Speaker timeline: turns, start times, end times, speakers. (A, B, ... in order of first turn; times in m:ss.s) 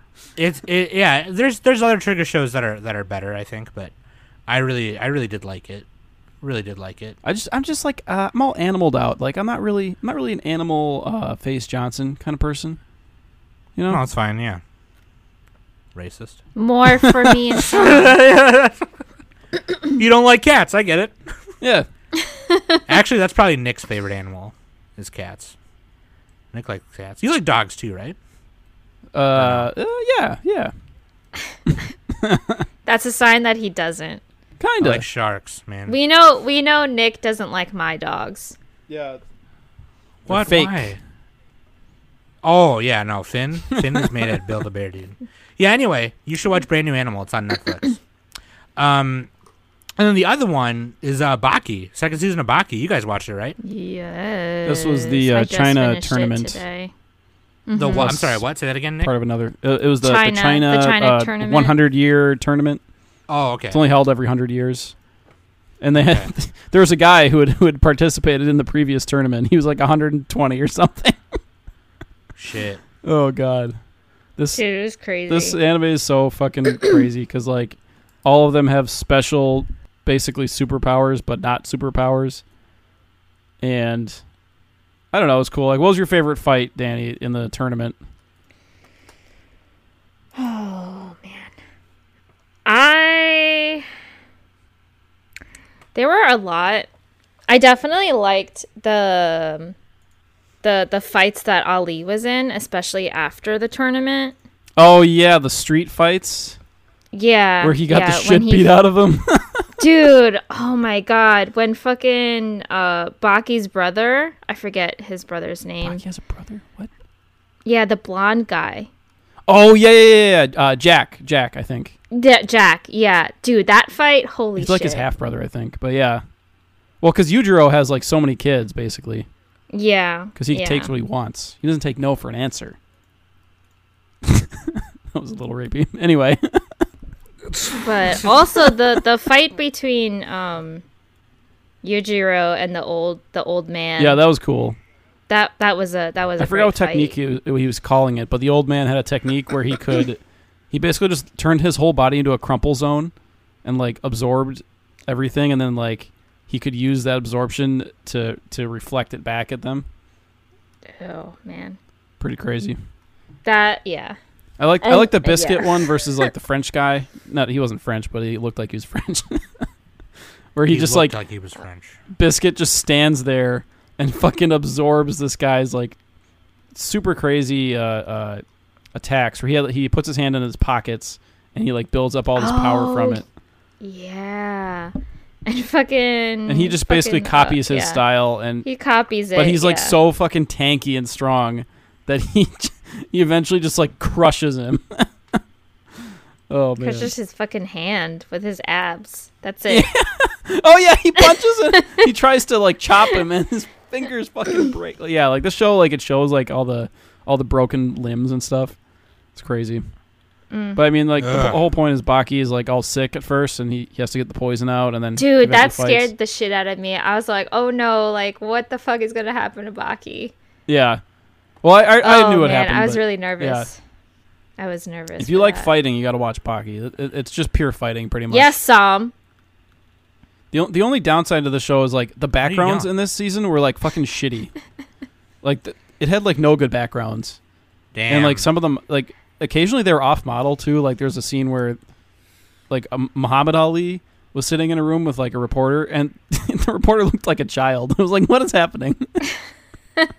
0:00.4-0:03.9 A
0:04.5-0:05.8 A
0:06.4-0:07.2 A
0:07.2-0:12.8 B
0:13.8-0:14.0 B
0:13.9-0:14.6 A
0:15.9-0:16.4 A
0:16.6-0:18.1 C
0:17.0-0:17.4 B
0:17.6-0:18.9 A
0:19.9-0:21.2 A
0:21.6-0:21.9 B
0:22.4-0:22.8 C
0:22.9-0:25.5 A
0:26.5-0:28.2 A
0:29.1-0:30.7 B
0:29.3-0:29.7 A
0:31.7-0:32.6 B
0:32.8-0:34.2 C
0:34.6-0:35.0 B
0:34.8-0:36.0 A
0:35.9-0:38.6 C
0:38.9-0:39.2 B
0:40.2-0:41.0 A
0:40.3-0:41.0 B
0:42.4-0:48.0 A
0:43.7-0:44.3 B
0:48.8-0:49.3 A
0:50.0-0:53.6 A
0:53.6-0:56.9 C
0:54.6-0:56.6 B
0:57.6-0:58.1 C
0:57.7-0:59.1 A
0:57.9-0:58.4 B
0:59.0-1:02.8 B
1:00.0-1:01.7 C
1:03.3-1:03.8 A
1:03.7-1:04.9 B
1:05.8-1:11.2 B
1:06.0-1:06.3 A
1:12.4-1:12.8 A
1:13.0-1:13.8 B
1:14.4-1:14.6 B
1:14.6-1:15.6 C
1:15.3-1:22.4 B
1:23.6-1:24.2 B
1:25.1-1:28.0 B
1:30.3-1:31.5 C
1:32.6-1:33.8 C
1:35.9-1:36.9 C
1:37.5-1:39.7 C
1:40.6-1:44.3 C
1:44.8-1:46.6 B
1:47.1-1:48.8 C
1:47.6-1:49.6 B
1:49.8-1:56.0 C
1:55.8-1:56.9 B
1:57.6-1:58.9 C
1:59.5-2:01.9 B
2:02.1-2:05.1 C
2:04.6-2:06.2 B
2:07.0-2:09.3 B
2:09.7-2:10.9 C
2:10.4-2:12.8 B
2:14.2-2:16.8 B
2:17.5-2:18.4 A
2:17.8-2:20.8 C
2:21.8-2:24.2 C
2:24.0-2:24.8 B
2:25.3-2:27.1 C
2:26.4-2:30.2 B
2:30.7-2:33.1 B
2:33.6-2:39.9 B
2:40.9-2:41.8 C
2:42.2-2:42.8 B
2:43.4-2:44.2 C
2:44.6-2:49.6 B
2:44.8-2:46.3 C
2:50.5-2:51.2 B
2:50.7-2:52.0 A
2:52.1-2:56.0 B
2:56.7-2:58.4 B
2:58.9-3:03.2 B
3:02.4-3:03.2 C
3:03.8-3:04.9 C
3:05.4-3:08.0 C
3:06.5-3:08.6 B
3:08.6-3:10.0 C
3:09.3-3:15.1 B
3:16.5-3:17.1 B
3:16.8-3:19.9 C
3:19.7-3:28.7 B
3:21.2-3:22.1 C
3:29.3-3:29.8 B
3:30.5-3:30.8 C
3:30.8-3:36.1 B
3:31.2-3:31.6 A
3:35.2-3:40.3 C
3:40.7-3:41.0 B
3:41.6-3:43.7 B
3:42.0-3:43.8 C
3:44.6-3:45.7 C
3:45.2-3:48.6 B
3:48.3-3:49.1 C
3:50.5-3:54.5 B
3:52.4-3:52.9 A
3:55.4-3:57.4 B
3:57.9-3:58.5 A
3:58.1-4:01.8 B
4:02.7-4:09.3 B